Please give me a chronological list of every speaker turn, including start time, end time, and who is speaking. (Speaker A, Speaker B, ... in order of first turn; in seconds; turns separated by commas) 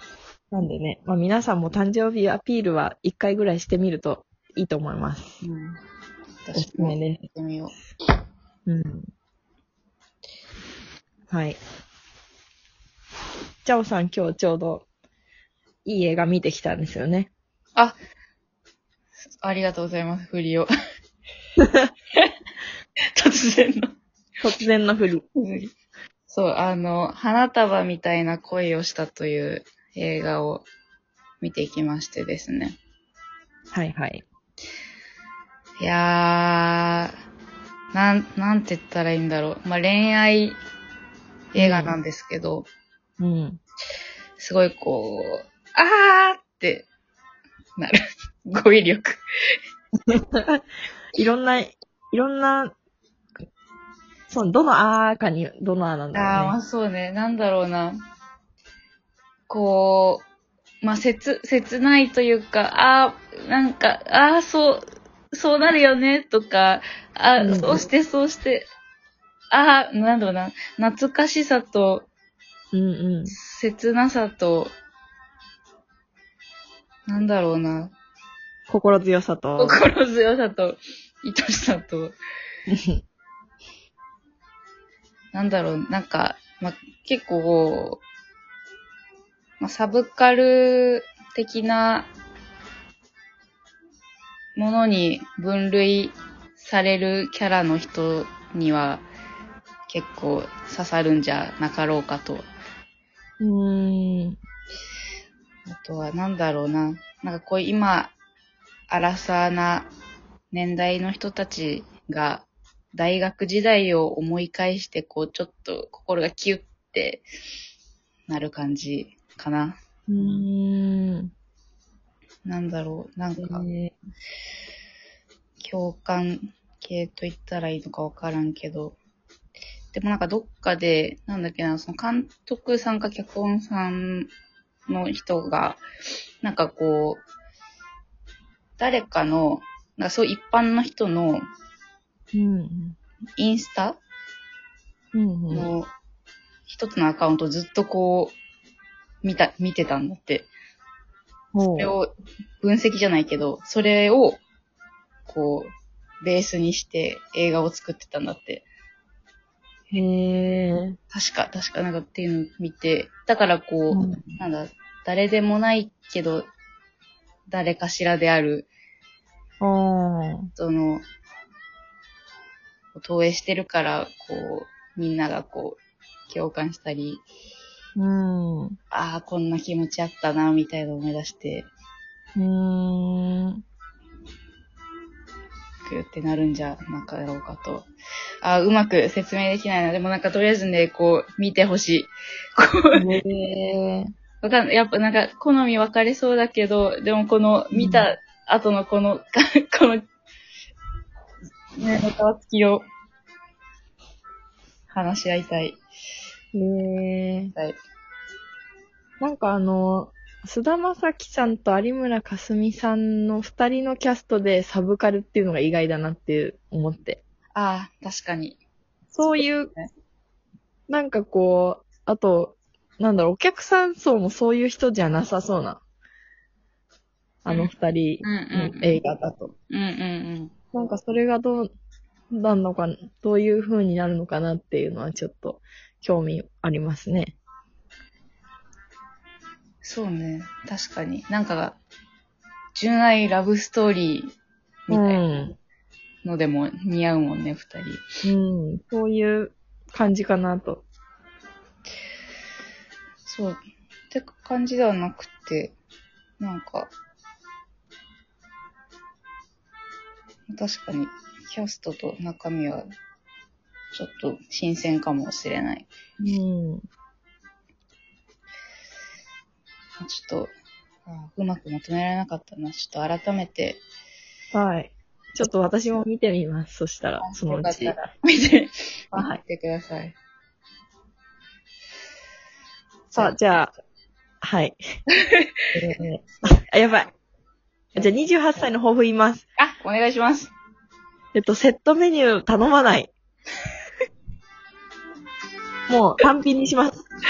Speaker A: 0.5-5.4, Speaker B: 5.4-5.8, Speaker B: 6.5-7.7, Speaker A: 6.5-7.2, Speaker A: 8.7-9.1, Speaker A: 11.3-11.6, Speaker A: 13.6-14.9, Speaker A: 15.8-17.3, Speaker B: 19.4-20.7, Speaker B: 23.2-23.9, Speaker A: 24.4-25.2, Speaker B: 25.4-25.7, Speaker B: 26.3-30.7, Speaker B: 31.4-32.8, Speaker A: 33.7-34.2, Speaker B: 35.8-37.1, Speaker B: 37.9-40.6, Speaker B: 41.5-42.7, Speaker A: 41.6-42.0, Speaker A: 43.2-43.6, Speaker B: 44.4-46.9, Speaker B: 47.8-49.2, Speaker A: 50.1-50.6, Speaker A: 51.1-52.7, Speaker A: 54.3-56.6, Speaker B: 56.1-58.0, Speaker B: 59.5-60.2, Speaker B: 60.8-68.7, Speaker A: 67.4-67.9, Speaker B: 69.5-72.1, Speaker A: 72.7-73.4, Speaker B: 73.3-74.7, Speaker B: 77.1-77.9, Speaker A: 78.7-79.8, Speaker B: 79.6-82.2, Speaker A: 82.7-83.0, Speaker B: 85.3-88.0, Speaker B: 89.6-92.1, Speaker B: 94.5-99.1, Speaker B: 99.9-102.5, Speaker A: 103.4-104.4, Speaker B: 105.7-108.1, Speaker B: 108.9-109.9, Speaker B: 110.5-117.2, Speaker B: 118.3-120.5, Speaker A: 120.1-121.3, Speaker B: 122.5-123.7, Speaker A: 123.4-123.9, Speaker B: 125.6-129.0, Speaker B: 129.9-134.3, Speaker B: 134.9-135.8, Speaker B: 136.4-137.2, Speaker B: 138.8-141.5, Speaker A: 142.3-143.0, Speaker B: 143.4-144.0, Speaker A: 145.1-145.7, Speaker B: 145.5-145.9, Speaker B: 146.7-148.3, Speaker B: 149.2-150.5, Speaker A: 151.5-151.9, Speaker B: 151.6-154.4, Speaker B: 155.3-158.6, Speaker A: 159.9-161.0, Speaker B: 161.1-166.5, Speaker A: 163.9-164.2, Speaker B: 167.5-168.7, Speaker A: 169.6-170.5, Speaker B: 170.6-171.0, Speaker B: 172.9-177.2, Speaker A: 178.0-178.8, Speaker B: 178.9-181.7, Speaker A: 182.4-183.6, Speaker B: 185.9-187.9, Speaker B: 188.4-193.1, Speaker A: 192.9-194.1, Speaker B: 194.4-200.0, Speaker A: 197.7-198.1, Speaker B: 201.8-202.8, Speaker B: 204.9-205.8, Speaker A: 206.5-207.5, Speaker B: 207.5-207.8, Speaker A: 209.2-217.2, Speaker B: 217.6-218.6, Speaker A: 219.1-219.7, Speaker B: 219.2-219.9, Speaker A: 220.9-225.8, Speaker A: 227.4-229.5, Speaker B: 227.5-229.0, Speaker B: 229.7-230.5, Speaker A: 230.7-231.7, Speaker A: 232.3-237.3, Speaker B: 239.8-241.8, Speaker B: 242.8-244.3, Speaker B: 244.9-245.4, Speaker A: 244.9-245.5, Speaker B: 246.2-248.0, Speaker A: 248.2-250.8, Speaker B: 253.2-253.6, Speaker B: 254.1-255.8, Speaker B: 256.4-256.9, Speaker B: 260.5-262.9, Speaker B: 263.9-265.9, Speaker A: 266.2-266.9, Speaker B: 270.0-270.5, Speaker B: 271.1-273.8, Speaker A: 274.5-278.0, Speaker B: 277.2-280.1, Speaker A: 279.1-279.4, Speaker B: 283.1-283.4, Speaker A: 283.1-283.7, Speaker A: 284.4-284.8, Speaker B: 285.1-285.5, Speaker A: 285.7-287.1, Speaker A: 288.0-289.4, Speaker B: 289.6-290.5, Speaker A: 291.3-293.1, Speaker A: 295.9-297.0